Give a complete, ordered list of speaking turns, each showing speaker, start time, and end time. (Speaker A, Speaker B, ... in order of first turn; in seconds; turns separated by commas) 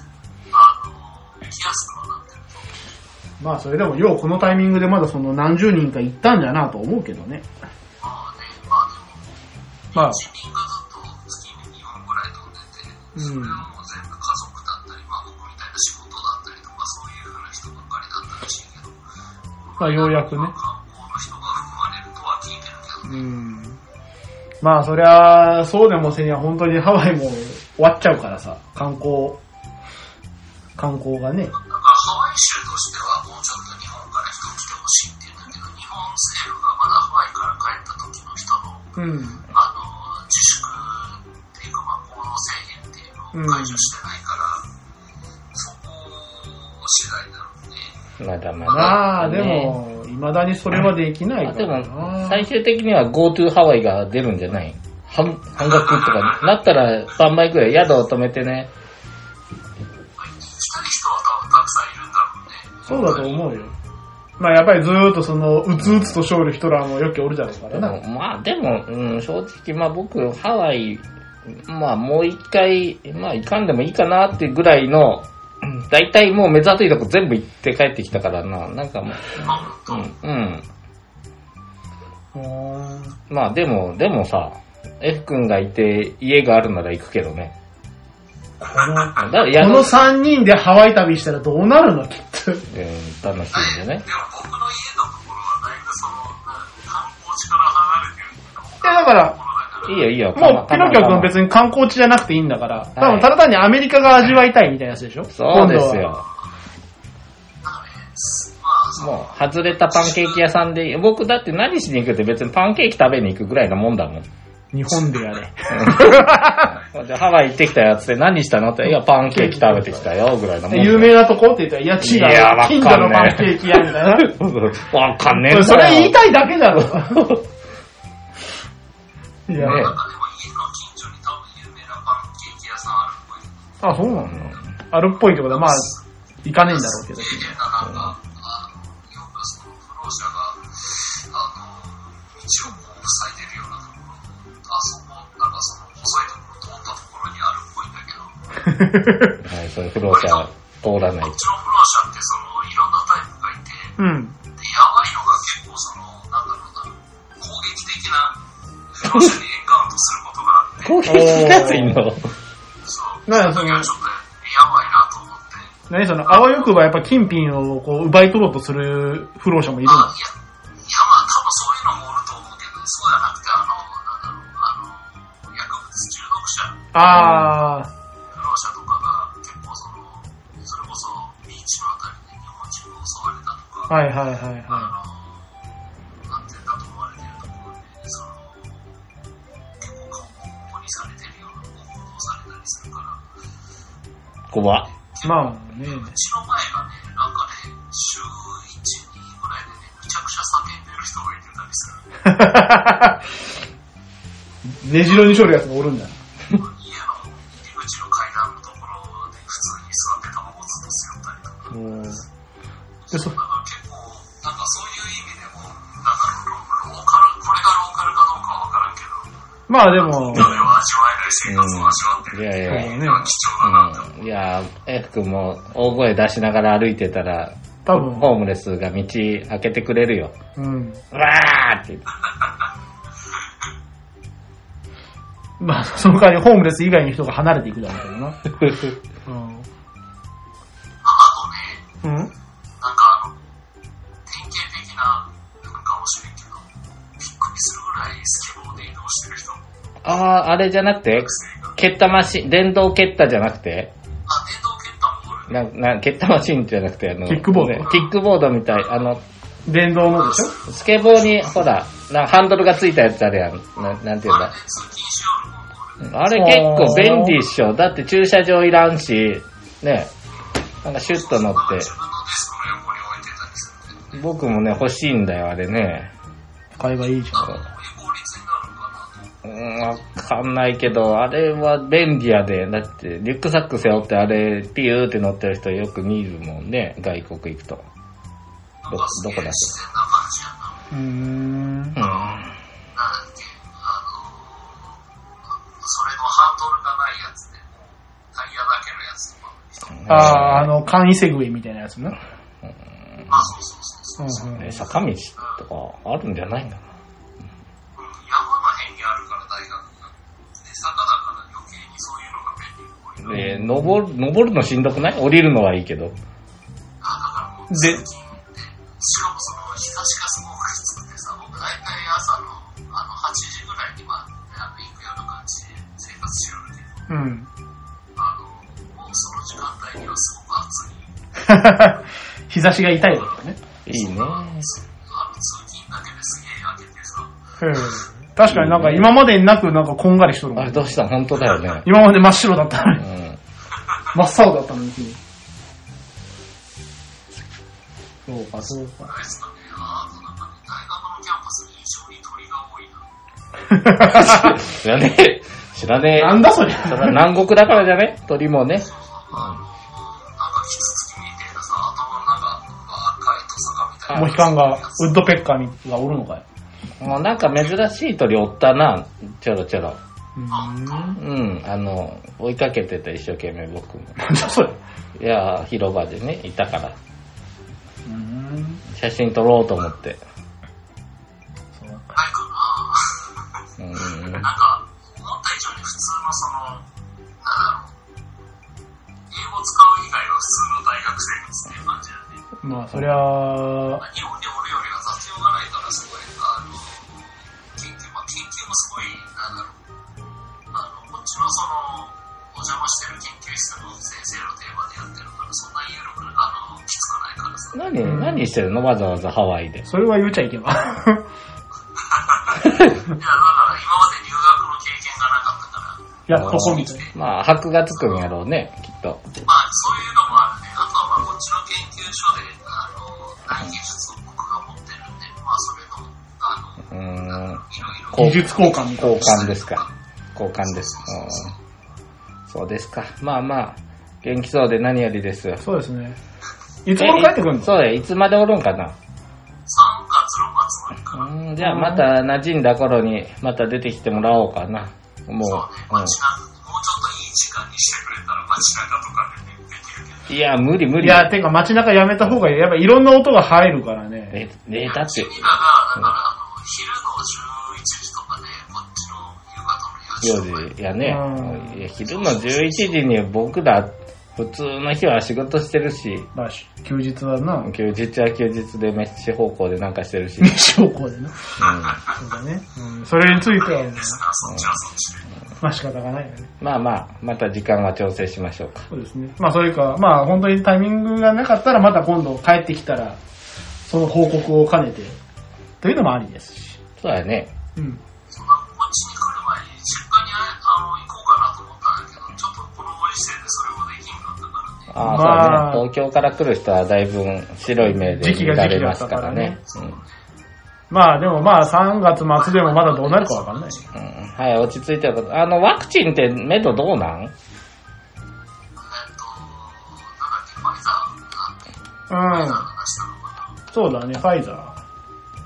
Speaker A: 0.5-2.8, Speaker B: 3.4-7.5, Speaker A: 8.0-19.0, Speaker B: 9.9-10.2, Speaker B: 13.2-13.7, Speaker A: 19.6-23.3, Speaker B: 19.8-20.5, Speaker B: 23.0-23.8, Speaker B: 24.6-29.4, Speaker B: 30.8-31.5, Speaker A: 31.5-38.9, Speaker B: 39.0-39.4, Speaker A: 39.5-44.6, Speaker B: 43.3-43.9, Speaker A: 45.5-47.9, Speaker C: 48.2-49.8, Speaker B: 48.7-52.5, Speaker A: 48.7-49.0, Speaker C: 51.4-58.7, Speaker A: 55.6-56.5, Speaker A: 60.2-63.6, Speaker B: 62.9-63.7, Speaker B: 64.4-68.0, Speaker C: 67.7-80.7, Speaker A: 79.3-80.1, Speaker B: 82.3-83.2, Speaker C: 83.3-87.5, Speaker B: 88.6-92.6, Speaker A: 88.7-89.3, Speaker C: 89.1-90.0, Speaker C: 92.7-94.0, Speaker A: 93.5-100.1, Speaker B: 98.8-99.3, Speaker C: 99.8-101.3, Speaker B: 100.3-106.0, Speaker C: 103.0-103.3, Speaker C: 105.3-106.2, Speaker A: 107.6-110.4, Speaker C: 109.0-114.2, Speaker B: 114.7-116.8, Speaker C: 115.7-121.2, Speaker B: 119.1-120.1, Speaker B: 120.7-124.3, Speaker C: 122.0-126.2, Speaker B: 125.3-127.3, Speaker C: 126.8-127.4, Speaker B: 129.5-129.9, Speaker C: 129.6-130.0, Speaker A: 129.6-133.8, Speaker B: 133.8-135.9, Speaker C: 134.2-134.7, Speaker A: 135.3-136.0, Speaker B: 136.4-137.5, Speaker A: 136.6-148.4, Speaker C: 137.8-138.1, Speaker B: 148.6-149.4, Speaker C: 149.4-151.4, Speaker A: 150.1-150.5, Speaker A: 151.2-154.0, Speaker B: 154.0-154.4, Speaker A: 154.5-158.4, Speaker A: 158.9-161.5, Speaker C: 160.8-162.3, Speaker B: 161.1-162.0, Speaker A: 162.8-165.7, Speaker B: 163.3-163.9, Speaker B: 165.9-170.1, Speaker A: 169.8-176.9, Speaker B: 176.9-177.9, Speaker C: 177.1-177.5, Speaker A: 178.3-184.0, Speaker B: 183.9-184.9, Speaker A: 184.7-185.6, Speaker A: 186.2-189.0, Speaker A: 189.8-193.2, Speaker C: 194.5-194.8, Speaker A: 194.8-202.1, Speaker B: 195.2-196.1, Speaker B: 202.2-203.3, Speaker B: 204.6-206.2, Speaker A: 206.5-211.8, Speaker B: 211.7-212.2, Speaker A: 213.0-219.3, Speaker B: 219.7-220.8, Speaker A: 219.9-224.1, Speaker C: 221.4-223.0, Speaker B: 222.7-223.3, Speaker C: 223.6-230.3, Speaker B: 227.8-228.3, Speaker B: 230.6-231.0, Speaker C: 231.1-232.1, Speaker B: 235.6-238.4, Speaker B: 239.2-239.7, Speaker A: 241.0-241.8, Speaker B: 242.0-242.3, Speaker A: 242.8-243.4, Speaker A: 244.2-249.7, Speaker C: 250.0-253.9, Speaker A: 251.2-251.8, Speaker A: 254.3-255.6, Speaker C: 255.5-259.2, Speaker B: 257.3-258.0, Speaker B: 259.6-260.6, Speaker A: 260.0-261.6, Speaker C: 260.7-264.5, Speaker A: 264.2-266.6, Speaker C: 266.0-270.1, Speaker B: 266.3-267.4, Speaker C: 270.8-271.9, Speaker A: 271.0-274.2, Speaker C: 274.1-276.1, Speaker B: 276.7-277.6, Speaker A: 277.3-280.1, Speaker C: 279.4-287.9, Speaker A: 288.8-290.9, Speaker C: 288.9-289.7, Speaker B: 290.9-292.0, Speaker C: 291.9-292.6, Speaker A: 292.0-295.0, Speaker A: 295.5-300.4, Speaker C: 299.9-300.7, Speaker B: 300.1-302.2, Speaker A: 303.3-304.8, Speaker B: 304.2-304.7, Speaker C: 304.6-306.8, Speaker A: 305.4-305.6, Speaker A: 307.9-313.4, Speaker C: 313.2-316.1, Speaker B: 313.3-314.0, Speaker A: 317.0-327.1, Speaker B: 317.7-318.0, Speaker B: 327.1-327.5, Speaker A: 328.1-331.1, Speaker B: 331.4-333.6, Speaker A: 333.0-333.4, Speaker C: 333.9-334.7, Speaker A: 333.9-337.9, Speaker B: 337.6-341.0, Speaker C: 338.5-339.1, Speaker C: 340.6-341.9, Speaker B: 341.8-343.0, Speaker C: 343.0-343.4, Speaker B: 344.1-345.2, Speaker B: 348.2-349.1, Speaker A: 349.0-353.1, Speaker B: 353.7-354.6, Speaker C: 353.9-358.9, Speaker B: 356.1-357.2, Speaker A: 358.8-365.2, Speaker C: 364.1-364.4, Speaker B: 364.1-366.4, Speaker C: 367.0-370.0, Speaker B: 370.4-371.2, Speaker A: 370.5-371.2, Speaker C: 371.1-374.2, Speaker B: 374.2-374.8, Speaker C: 375.1-376.9, Speaker B: 378.0-378.8, Speaker C: 378.9-380.2, Speaker B: 381.8-382.2, Speaker A: 382.1-383.4, Speaker C: 383.8-384.5, Speaker A: 384.2-386.9, Speaker A: 387.4-387.9, Speaker A: 389.3-392.4, Speaker B: 392.6-394.0, Speaker A: 394.0-399.8, Speaker A: 400.7-407.8, Speaker C: 407.7-409.9, Speaker B: 408.0-408.5, Speaker B: 409.9-411.2, Speaker A: 412.0-417.1, Speaker C: 412.6-413.0, Speaker B: 416.3-417.0, Speaker C: 416.3-419.2, Speaker A: 419.4-429.9, Speaker C: 426.9-429.8, Speaker B: 428.1-429.3, Speaker C: 430.3-431.5, Speaker A: 430.6-431.6, Speaker C: 432.5-435.6, Speaker B: 435.6-436.2, Speaker B: 436.8-437.7, Speaker C: 437.0-438.9, Speaker A: 439.6-441.3, Speaker C: 441.1-446.2, Speaker B: 441.6-442.0, Speaker A: 445.4-450.3, Speaker C: 450.3-451.3, Speaker B: 451.0-454.4, Speaker C: 454.3-456.1, Speaker A: 454.9-460.7, Speaker C: 460.2-466.3, Speaker B: 461.0-461.8, Speaker A: 462.0-463.0, Speaker B: 466.3-467.7, Speaker C: 467.6-470.6, Speaker B: 470.4-471.5, Speaker C: 471.6-472.1, Speaker A: 471.9-472.1, Speaker B: 472.1-474.2, Speaker A: 473.2-475.3, Speaker C: 474.4-474.8, Speaker B: 475.6-476.5, Speaker C: 476.6-478.9, Speaker B: 478.9-483.2, Speaker B: 483.9-485.2, Speaker B: 485.8-486.8, Speaker C: 487.0-487.5, Speaker B: 487.8-488.0, Speaker A: 488.3-494.9, Speaker C: 494.9-500.0, Speaker B: 495.0-495.8, Speaker B: 497.8-499.6, Speaker A: 499.7-500.1, Speaker B: 500.9-503.9, Speaker A: 502.3-503.9, Speaker C: 503.9-507.3, Speaker A: 508.8-511.6, Speaker B: 512.1-512.7, Speaker A: 512.2-513.6, Speaker B: 513.7-514.8